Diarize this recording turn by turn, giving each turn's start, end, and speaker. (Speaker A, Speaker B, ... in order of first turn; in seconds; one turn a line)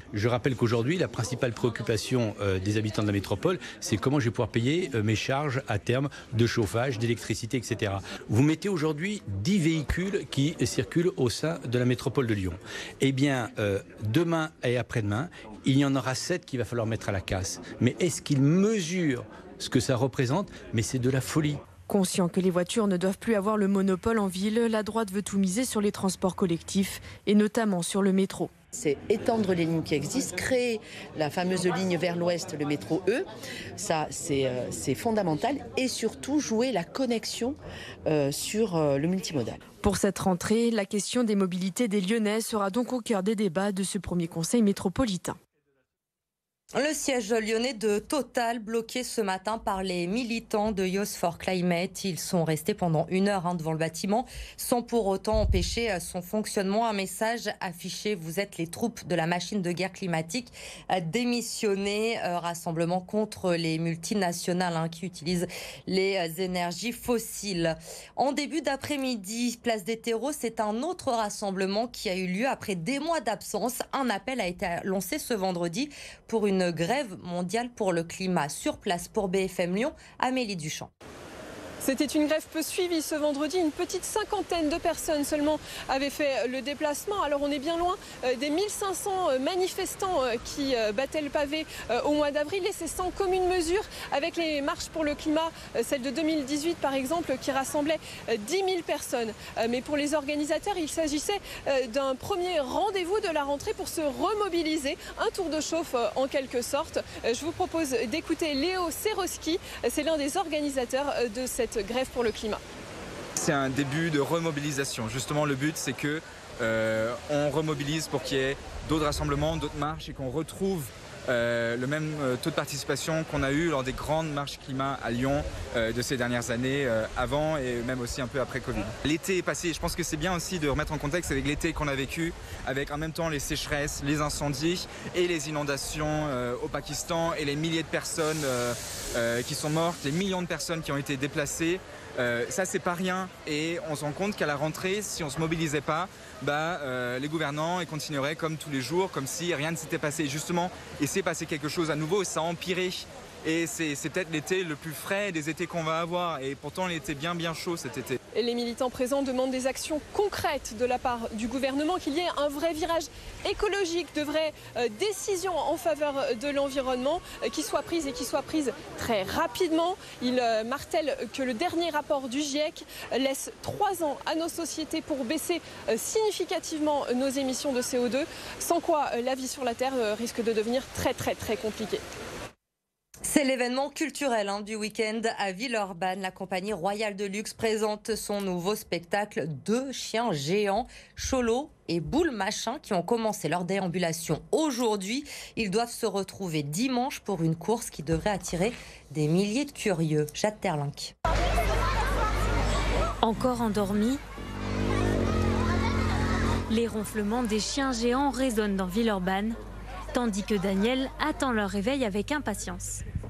Speaker A: 0.1-21.6
Speaker B: 21.9-28.5
Speaker C: 28.7-33.3
Speaker C: 33.8-37.5
Speaker C: 38.1-39.6
Speaker B: 39.8-45.4
Speaker D: 46.8-80.9
Speaker E: 81.8-112.6
Speaker F: 113.4-158.2
Speaker E: 158.3-182.0
Speaker D: 183.2-201.1
Speaker G: 203.2-204.2
Speaker G: 206.7-209.6
Speaker G: 210.1-213.0